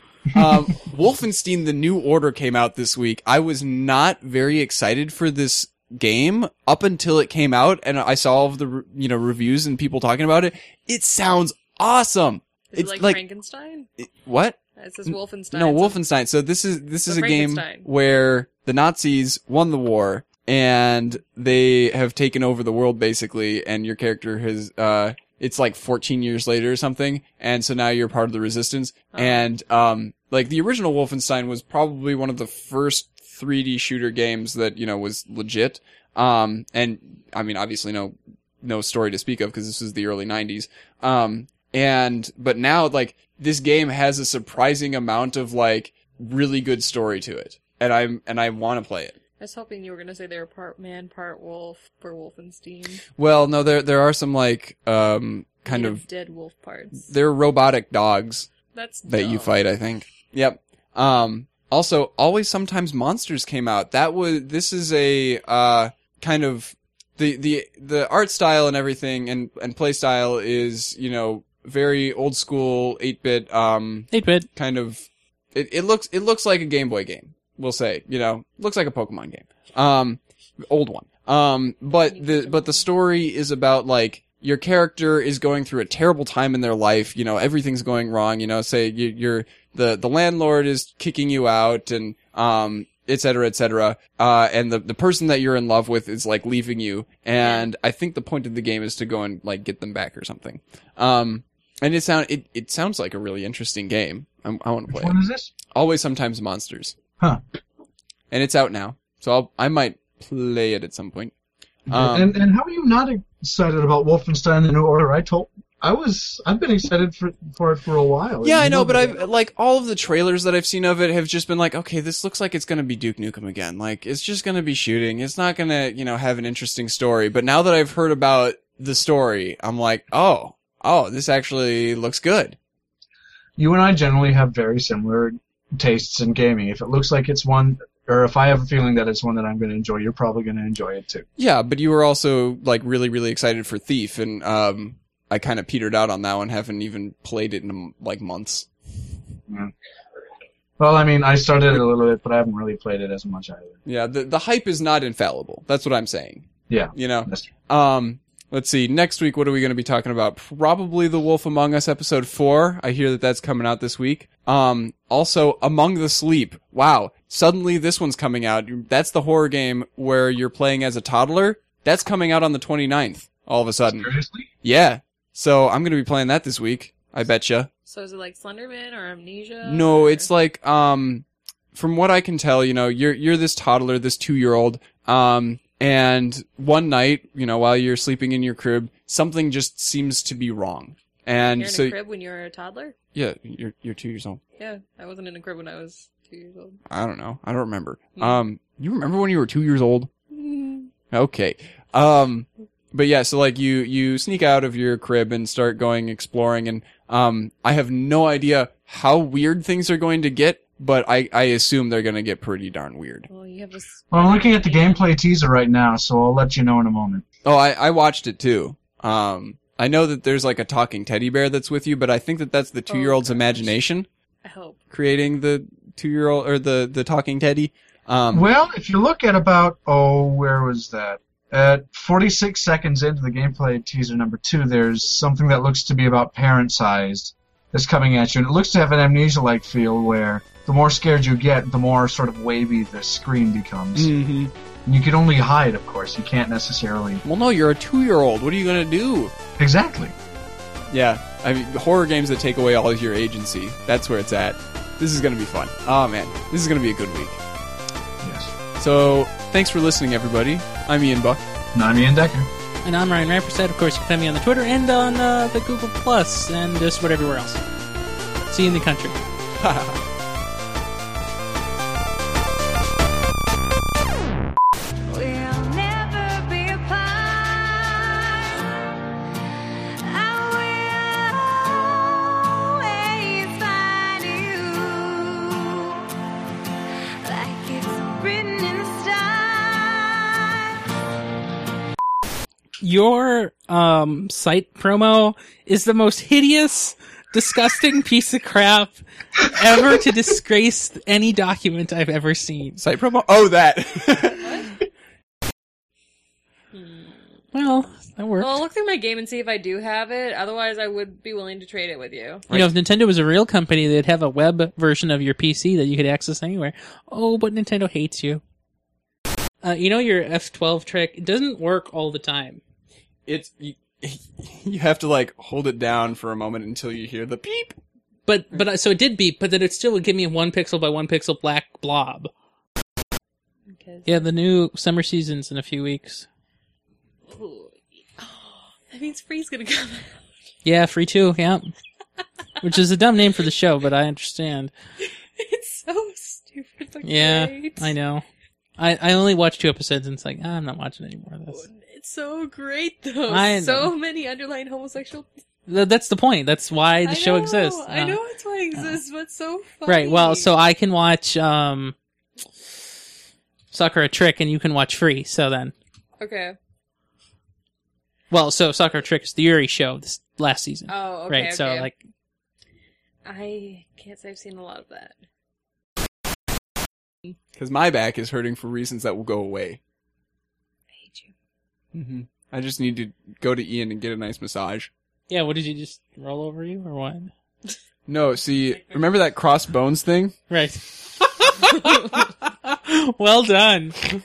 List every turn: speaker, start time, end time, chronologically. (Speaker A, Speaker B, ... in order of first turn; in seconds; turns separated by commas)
Speaker A: 0.3-13.2, Speaker B: 12.7-13.9, Speaker A: 14.0-49.1, Speaker B: 14.8-16.0, Speaker B: 17.1-17.9, Speaker B: 29.1-29.4, Speaker B: 49.4-53.0, Speaker A: 53.2-56.0, Speaker B: 55.6-57.1, Speaker A: 57.0-58.5, Speaker B: 58.7-59.5, Speaker A: 59.1-107.0, Speaker C: 74.1-74.5, Speaker B: 82.1-82.8, Speaker B: 97.4-97.7, Speaker D: 104.9-105.5, Speaker A: 108.3-111.3, Speaker A: 111.9-112.3, Speaker D: 111.9-119.2, Speaker A: 118.4-132.6, Speaker D: 133.6-141.2, Speaker A: 141.4-148.7, Speaker D: 150.8-153.8, Speaker A: 153.8-174.1, Speaker D: 156.7-157.5, Speaker D: 173.9-174.5, Speaker A: 174.6-177.7, Speaker B: 177.9-180.3, Speaker A: 179.6-191.9, Speaker B: 191.6-192.9, Speaker A: 193.1-194.4, Speaker B: 194.6-196.8, Speaker A: 196.9-200.1, Speaker B: 200.3-200.9, Speaker A: 201.1-213.3, Speaker B: 213.3-215.1, Speaker D: 214.1-217.2, Speaker A: 217.4-224.1, Speaker B: 222.9-223.7, Speaker B: 224.4-224.8, Speaker A: 224.9-228.5, Speaker D: 228.3-244.1, Speaker A: 243.9-244.5, Speaker D: 244.8-247.2, Speaker A: 247.2-249.3, Speaker D: 249.6-250.1, Speaker A: 250.9-257.4, Speaker D: 258.2-258.5, Speaker A: 258.8-261.4, Speaker D: 261.7-262.5, Speaker C: 262.8-267.6, Speaker C: 268.5-269.2, Speaker A: 269.6-270.0, Speaker E: 275.2-278.0, Speaker E: 281.0-281.4, Speaker E: 283.2-284.7, Speaker E: 285.3-285.6, Speaker E: 287.5-290.3, Speaker C: 292.8-302.8, Speaker A: 302.8-304.5, Speaker B: 304.4-304.7, Speaker B: 306.7-307.2, Speaker C: 307.5-308.6, Speaker B: 308.4-312.5, Speaker C: 312.5-318.4, Speaker C: 319.6-322.6, Speaker A: 323.3-327.8, Speaker C: 328.3-332.3, Speaker B: 333.7-334.3, Speaker C: 334.1-336.2, Speaker B: 337.3-340.2, Speaker C: 340.6-341.7, Speaker C: 342.6-344.7, Speaker B: 345.0-347.9, Speaker C: 347.0-348.2, Speaker C: 348.8-351.6, Speaker B: 351.5-355.3, Speaker C: 353.3-353.9, Speaker C: 355.7-358.2, Speaker B: 357.0-360.5, Speaker C: 359.9-361.9, Speaker C: 363.7-365.7, Speaker B: 366.2-366.6, Speaker C: 368.3-371.9, Speaker B: 370.9-371.9, Speaker B: 373.2-375.1, Speaker A: 377.6-379.8, Speaker B: 380.9-381.3, Speaker A: 381.9-384.9, Speaker C: 385.3-387.3, Speaker A: 388.1-390.4, Speaker C: 390.5-394.0